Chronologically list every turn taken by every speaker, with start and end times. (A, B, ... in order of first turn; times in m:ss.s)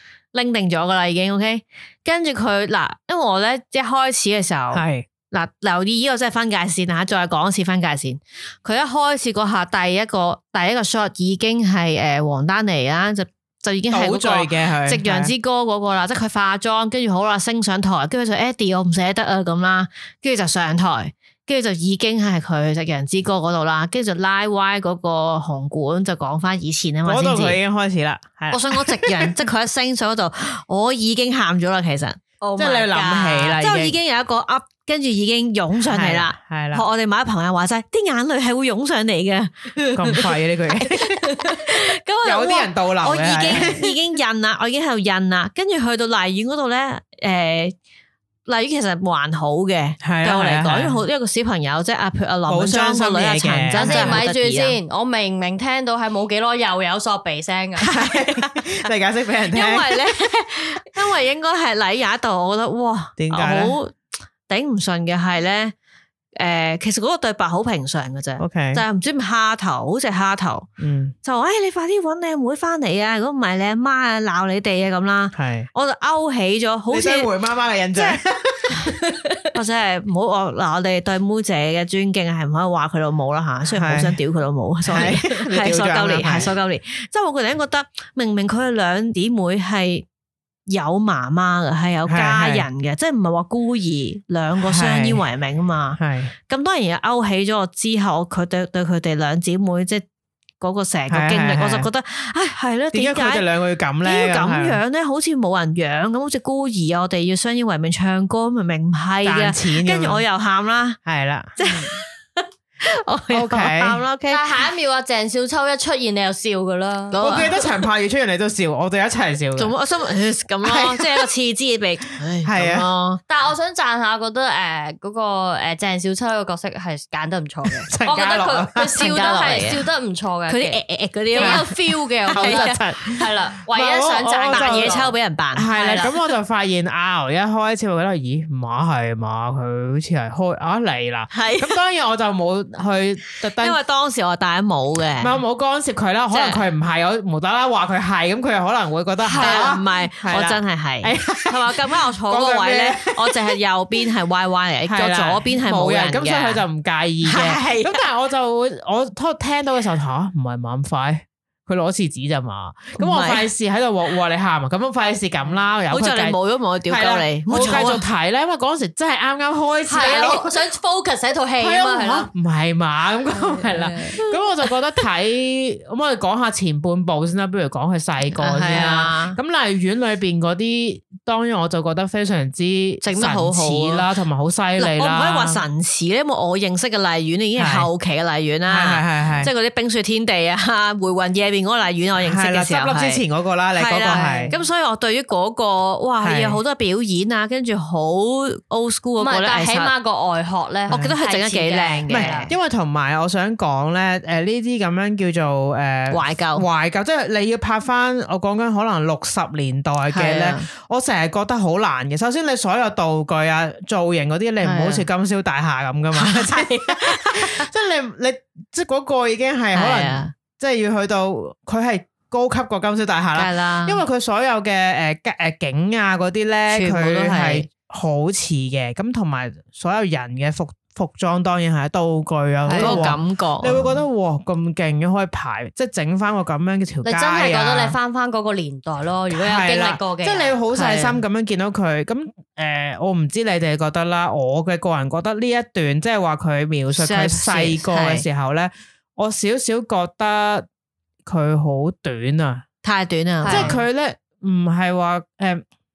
0:00.3-0:27.6 A
0:04.7-0:05.1 B
0:13.9-0:15.3 B
0:27.0-0:29.4 B
0:28.5-0:47.8 A
0:32.5-0:32.8 C
0:32.6-0:34.0 B
0:35.9-0:36.8 B
0:39.9-0:41.3 B
0:42.2-0:43.8 B
0:48.5-0:54.8 A
0:50.0-0:51.0 B
0:52.5-0:54.2 B
0:53.8-0:58.0 C
0:57.8-1:00.1 B
0:58.2-0:58.6 A
0:59.5-1:03.9 A
1:03.2-1:03.8 B
1:04.5-1:05.7 A
1:06.4-1:10.7 A
1:08.4-1:08.8 B
1:10.8-1:11.2 B
1:11.2-1:17.3 A
1:15.4-1:15.7 B
1:16.9-1:19.0 B
1:18.0-1:18.9 A
1:19.5-1:30.1 A
1:23.7-1:24.2 B
1:24.9-1:26.5 B
1:30.7-1:40.0 A
1:32.1-1:32.7 B
1:34.6-1:35.2 B
1:36.0-1:36.3 B
1:40.6-1:43.5 A
1:41.1-1:41.9 B
1:42.9-1:44.8 B
1:44.0-1:51.0 A
1:49.2-1:50.2 B
1:51.1-1:51.8 B
1:51.6-1:54.4 A
1:53.3-1:54.0 B
1:54.3-1:57.5 C
1:57.1-1:57.9 A
1:57.2-1:59.7 B
1:59.6-2:03.2 A
2:00.6-2:01.3 B
2:02.4-2:02.9 B
2:03.3-2:15.2 C
2:07.9-2:09.1 B
2:09.0-2:09.9 A
2:10.5-2:13.2 A
2:11.4-2:11.7 B
2:12.3-2:23.8 B
2:14.5-2:15.7 A
2:15.7-2:16.1 C
2:21.3-2:21.8 A
2:23.6-2:25.4 A
2:25.2-2:33.6 B
2:26.3-2:26.6 A
2:29.2-2:29.8 C
2:29.4-2:36.6 A
2:34.9-2:46.4 B
2:37.2-2:38.0 A
2:43.0-2:43.5 A
2:45.9-2:48.0 A
2:46.9-2:50.5 B
2:49.9-2:52.3 C
2:50.0-2:50.4 A
2:51.6-3:05.6 B
2:53.4-2:54.2 C
2:58.3-2:59.4 A
3:03.0-3:04.0 A
3:04.8-3:13.2 A
3:07.6-3:07.9 B
3:08.7-3:09.5 B
3:12.2-3:14.5 B
3:13.8-3:19.9 A
3:14.4-3:14.7 C
3:16.2-3:16.6 B
3:19.2-3:22.5 C
3:20.9-3:22.6 A
3:20.9-3:21.2 B
3:22.1-3:58.0 B
3:26.1-3:26.7 A
3:30.1-3:30.7 A
3:34.6-3:35.0 A
3:36.2-3:37.7 A
3:39.7-3:40.3 A
3:43.4-3:44.0 A
3:46.7-3:47.7 A
3:52.6-3:53.0 C
3:52.8-3:54.0 A
3:57.0-4:00.6 C
3:59.3-4:10.6 B
4:00.7-4:01.2 A
4:07.0-4:08.2 A
4:11.3-4:12.6 B
4:12.8-4:13.8 A
4:13.4-4:13.8 C
4:13.5-4:15.6 B